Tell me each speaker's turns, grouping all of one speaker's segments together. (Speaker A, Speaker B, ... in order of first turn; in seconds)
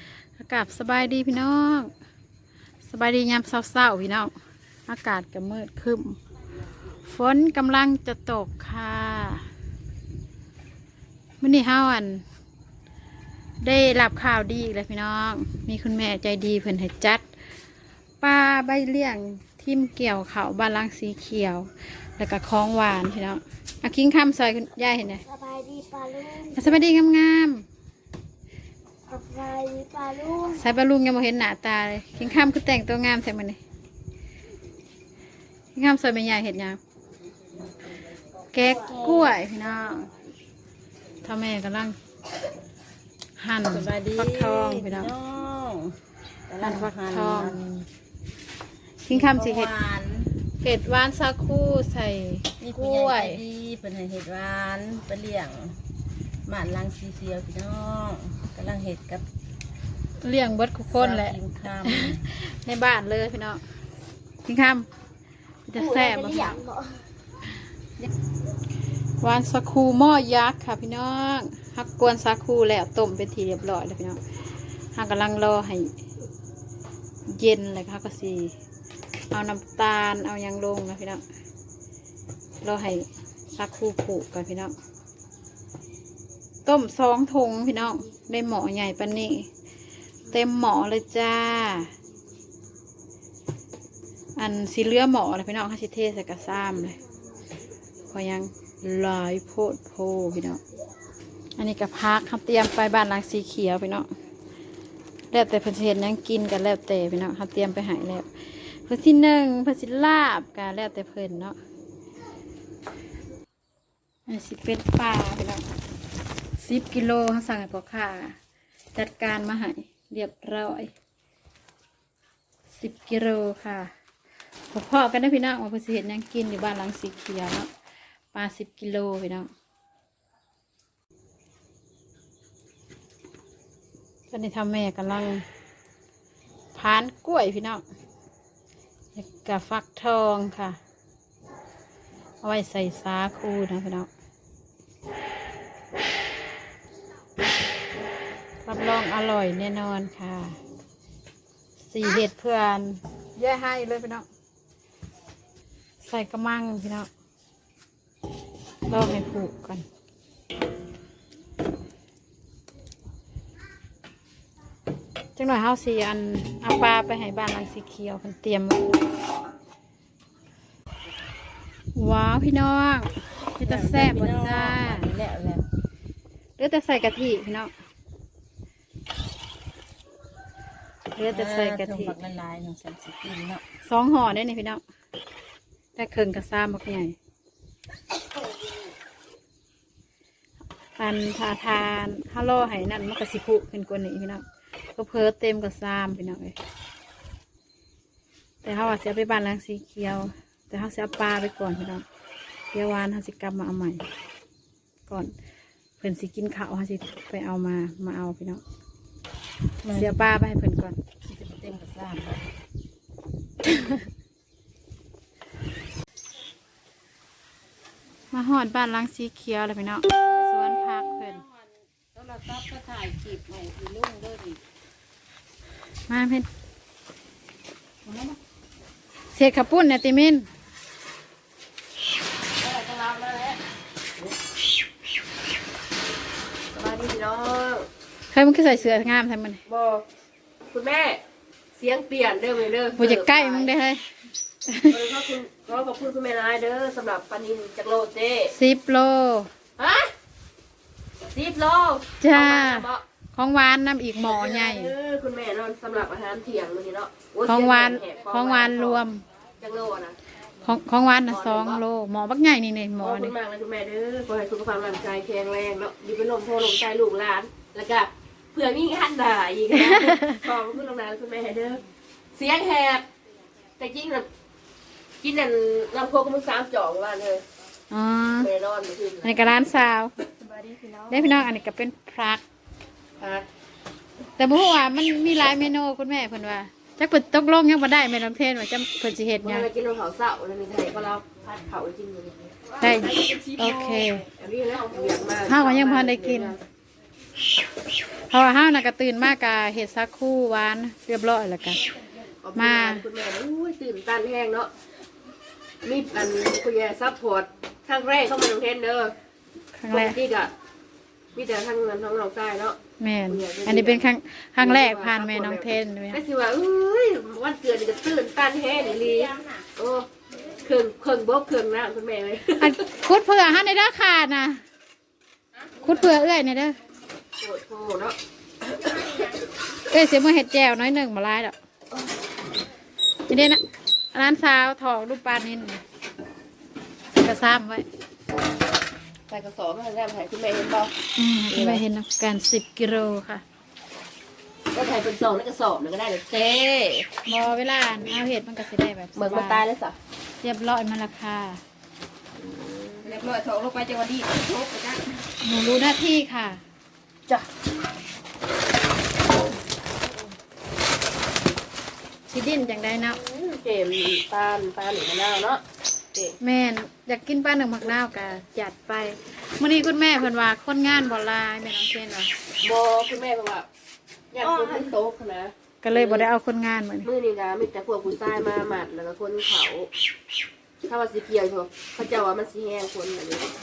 Speaker A: 0.4-1.9, 2.9-4.3, 4.9-6.2, 7.0-9.4, 11.4-12.2, 13.6-17.2, 18.2-25.2, 26.4-27.6, 30.4-33.6, 35.8-36.8, 38.5-40.1, 41.2-42.0, 43.4-45.1, 46.6-47.6, 49.0-49.7, 50.6-53.4, 60.2-63.6, 64.4-64.9, 65.7-66.6, 69.2-74.2, 74.9-76.0, 77.3-78.5, 79.3-81.2, 82.6-84.8, 86.7-89.5, 90.3-91.9, 94.4-97.0, 98.1-100.6, 101.6-104.1, 105.3-111.6, 114.3-115.6, 116.6-118.4, 119.0-120.9, 122.8-123.9, 124.7-127.7, 128.3-129.5, 134.3-135.4, 136.7-137.8, 139.2-140.8, 142.4-144.1, 148.7-150.6, 151.9-154.3, 156.0-157.1, 158.9-159.9, 165.4-169.0, 171.9-175.1, 176.6-177.7, 181.2-182.2, 183.8-184.8, 186.0-187.2, 191.0-194.4, 195.0-196.6, 198.6-202.1, 202.7-204.0, 205.1-205.3, 206.0-208.6, 209.9-211.0, 213.7-214.0, 218.3-221.4, 226.1-226.5, 229.3-230.5, 238.3-239.6, 243.0-244.1, 244.7-245.0, 248.5-249.5, 252.2-254.9, 257.4-259.2, 260.6-263.3, 269.8-270.3, 277.9-278.5, 279.2-280.1, 281.1-282.4, 284.4-289.7, 292.8-294.3, 295.4-296.6, 298.3-301.8, 302.6-303.0, 309.8-310.2, 313.0-316.2, 322.6-324.6, 325.8-326.8, 329.9-331.6, 333.3-333.6, 334.1-335.8, 337.1-337.9, 341.2-343.4, 347.2-349.6, 350.4-351.6, 355.4-356.6, 362.3-363.2, 366.4-372.3, 375.8-377.1
Speaker B: 25.2-26.8, 29.1-30.6, 38.9-39.3, 66.0-67.0
Speaker C: 43.7-46.0, 46.5-47.9, 49.1-50.3, 52.6-55.8, 56.5-59.2, 60.9-62.2, 173.6-175.7, 181.3-183.6, 209.8-210.3, 211.2-212.4, 220.2-224.6, 228.1-228.4, 280.4-281.5, 318.7-319.7, 328.8-329.4, 353.0-355.2, 374.4-375.0
Speaker D: 232.6-233.6, 236.7-237.9, 239.7-240.1, 240.7-241.2, 241.7-243.7, 244.9-248.6, 249.8-250.1, 251.3-253.1, 254.2-259.0, 259.6-260.2, 261.2-261.8, 263.0-273.1, 273.8-274.3, 275.2-277.4, 278.4-279.5, 283.2-283.5, 289.4-296.6, 302.4-304.7, 305.8-309.2, 309.9-310.5, 311.3-312.8, 313.3-320.1, 320.6-322.8, 327.4-328.2, 339.3-340.9, 341.5-341.9, 344.7-347.1, 349.1-350.0, 352.4-353.1, 363.1-365.6, 372.6-373.7, 374.3-376.3, 377.0-379.9, 380.8-383.5